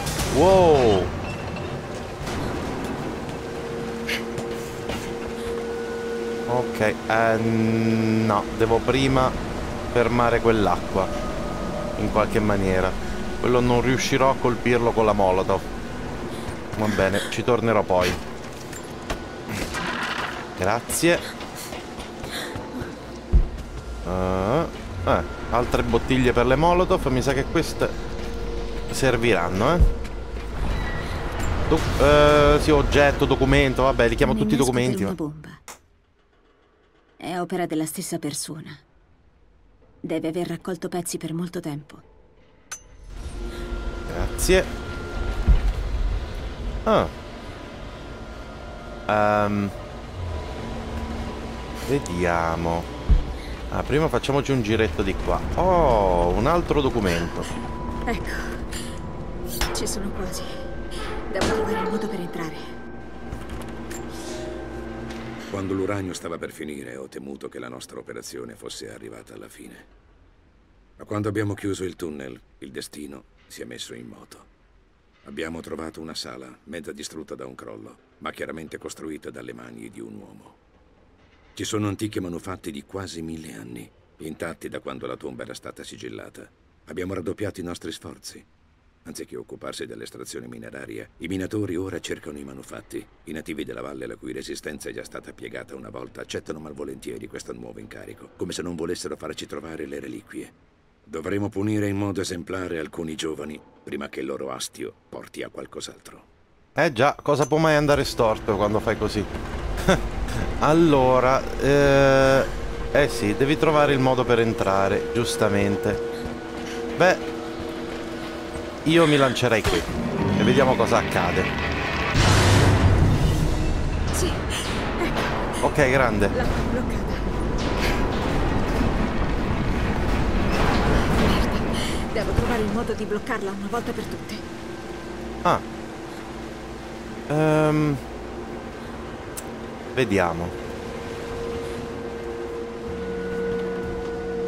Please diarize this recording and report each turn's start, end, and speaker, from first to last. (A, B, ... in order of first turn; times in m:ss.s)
0:00.3-0:01.1 A
0:06.5-0:09.3 A
0:09.9-0:11.1 A
0:12.0-0:15.6 A
0:16.7-0:18.2 A
0:20.6-0:21.2 A
0:24.0-0:27.9 A
0:28.9-0:29.8 A
0:31.7-0:35.1 A
0:34.2-0:35.6 B
0:37.2-0:38.8 B
0:40.0-0:42.0 B
0:44.1-0:44.7 A
0:46.8-0:47.1 A
0:49.1-0:49.7 A
0:51.9-0:52.9 A
0:53.7-0:57.4 A
0:58.1-0:58.8 B
0:59.7-1:00.6 B
1:01.3-1:02.6 B
1:05.5-1:09.9 C
1:11.0-1:14.5 C
1:15.2-1:20.6 C
1:21.5-1:28.5 C
1:29.0-1:40.5 C
1:41.0-1:46.3 C
1:46.8-1:49.3 A
1:49.8-1:56.0 A
1:57.0-1:57.2 A
1:58.8-2:01.5 A
2:04.1-2:05.2 B
2:05.6-2:06.3 A
2:06.3-2:07.4 B
2:11.0-2:14.4 B
2:17.3-2:18.0 A
2:19.9-2:20.5 A